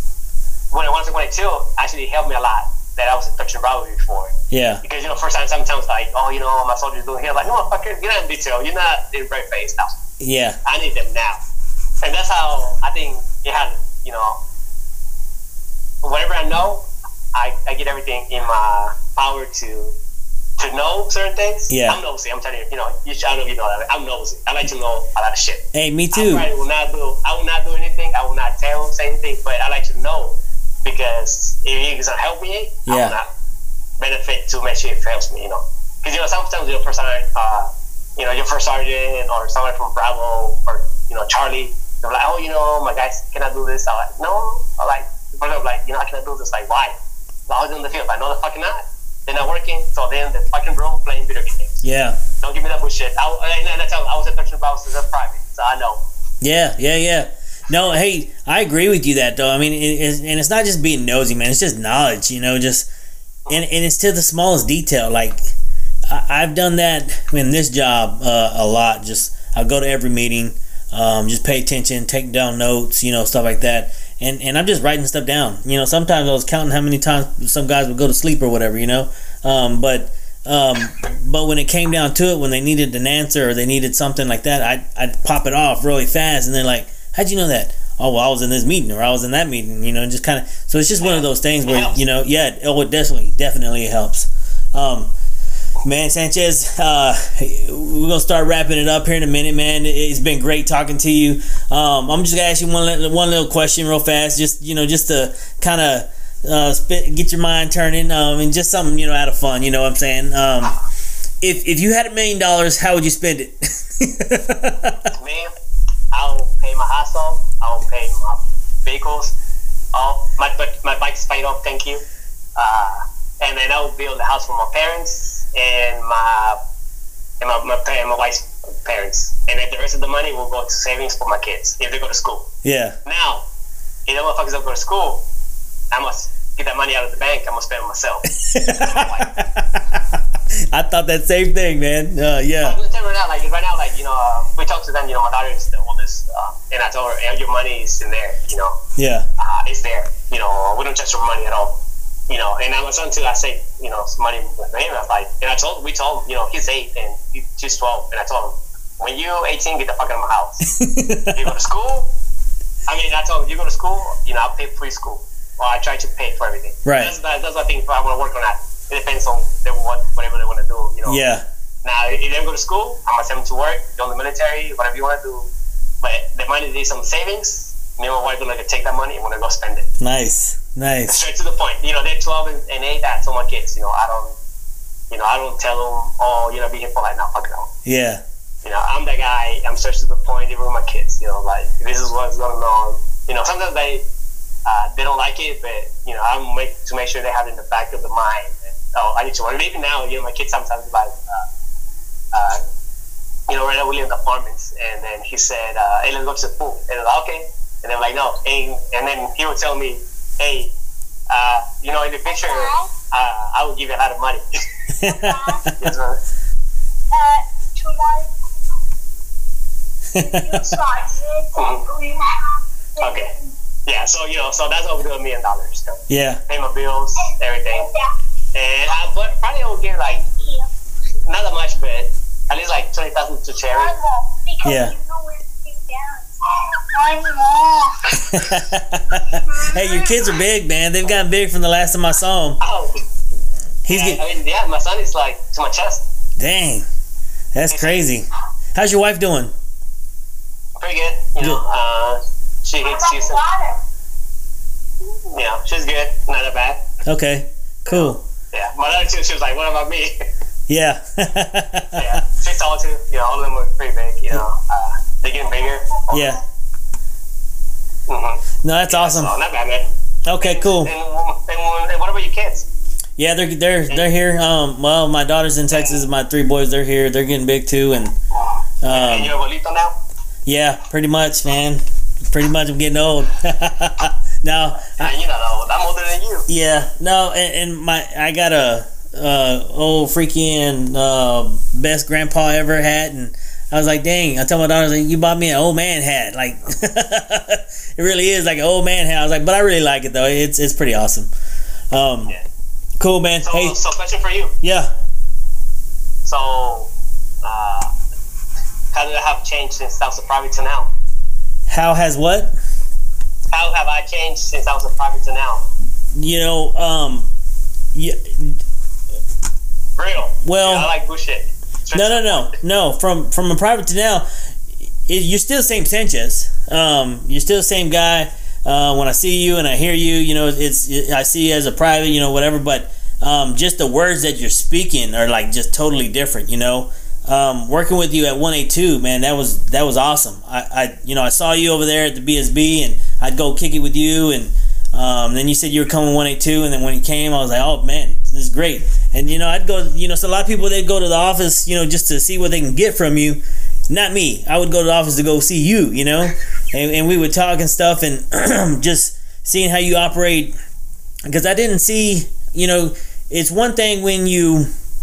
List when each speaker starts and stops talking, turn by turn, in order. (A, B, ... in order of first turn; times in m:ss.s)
0:00.7-0:09.9 A
0:04.5-0:04.8 B
0:10.2-0:10.6 B
0:10.6-0:11.4 A
0:12.0-0:14.4 A
0:16.0-0:20.0 A
0:20.6-0:33.3 A
0:21.7-0:22.0 B
0:25.7-0:26.5 B
0:32.9-0:33.2 B
0:34.0-0:47.0 A
0:47.5-0:51.8 A
0:51.8-0:52.2 B
0:52.4-0:56.0 A
0:56.4-1:02.9 B
1:03.5-1:05.4 B
1:06.1-1:35.1 B
1:31.0-1:32.0 A
1:35.8-1:50.8 B
1:51.4-1:55.1 B
1:55.2-1:55.5 A
1:56.1-1:59.3 A
1:59.9-2:02.0 A
2:02.6-2:06.6 A
2:07.4-2:12.5 A
2:12.6-2:13.0 B
2:13.0-2:13.4 A
2:14.1-2:15.2 A
2:15.9-2:19.3 A
2:18.4-2:20.2 B
2:20.7-2:22.8 B
2:22.6-2:28.8 A
2:29.0-2:29.3 B
2:29.4-2:31.8 A
2:32.3-2:40.7 A
2:40.6-2:41.5 B
2:41.3-2:42.1 A
2:42.9-2:51.2 A
2:46.8-2:47.1 B
2:51.1-2:51.4 B
2:51.8-2:55.5 A
2:56.0-2:59.9 A
3:00.0-3:01.2 B
3:01.1-3:04.4 A
3:05.1-3:07.7 A
3:07.9-3:08.2 B
3:08.6-3:14.0 A
3:14.7-3:21.5 A
3:22.3-3:22.6 A
3:23.5-3:30.7 A
3:31.3-3:34.4 A
3:32.3-3:32.9 C
3:35.0-3:35.7 B
3:35.0-3:35.7 C
3:35.8-3:36.2 A
3:37.1-3:38.3 C
3:40.1-3:40.7 B
3:40.2-3:43.4 C
3:41.6-3:41.8 A
3:43.0-3:43.3 A
3:43.9-3:47.9 A
3:46.1-3:46.4 B
3:47.2-3:48.1 C
3:48.6-3:50.2 A
3:50.4-3:50.7 C
3:51.3-3:54.0 A
3:53.7-3:58.4 C
3:54.6-3:55.0 B
3:58.1-4:02.6 B
3:59.4-4:00.4 C
4:02.6-4:02.9 A
4:03.8-4:04.2 B
4:03.9-4:06.0 A
4:06.4-4:06.9 B
4:07.5-4:09.5 B
4:07.7-4:08.1 A
4:10.8-4:13.4 A
4:12.8-4:13.8 C
4:15.3-4:16.8 A
4:17.1-4:18.2 B
4:17.9-4:20.1 A
4:20.7-4:22.2 B
4:21.9-4:26.3 A
4:26.1-4:26.4 B
4:28.1-4:29.9 A
4:28.6-4:29.3 B
4:30.3-4:30.9 B
4:30.4-4:32.7 A
4:33.2-4:38.2 B
4:35.7-4:36.0 A
4:38.3-4:40.0 A
4:38.8-4:39.3 B
4:40.5-4:45.1 B
4:45.0-4:46.5 A
4:46.5-5:01.3 B
5:01.9-5:02.3 B
5:03.0-5:03.8 B
5:03.4-5:04.6 A
5:04.6-5:04.9 B
5:06.2-5:06.9 A
5:07.4-5:07.9 A
5:08.9-5:10.9 A
5:11.7-5:12.5 B
5:13.5-5:15.6 A
5:16.1-5:17.3 B
5:18.0-5:18.6 B
5:20.0-5:22.6 A
5:20.4-5:20.9 B
5:21.9-5:24.3 B
5:25.1-6:00.5 B
6:01.3-6:04.7 B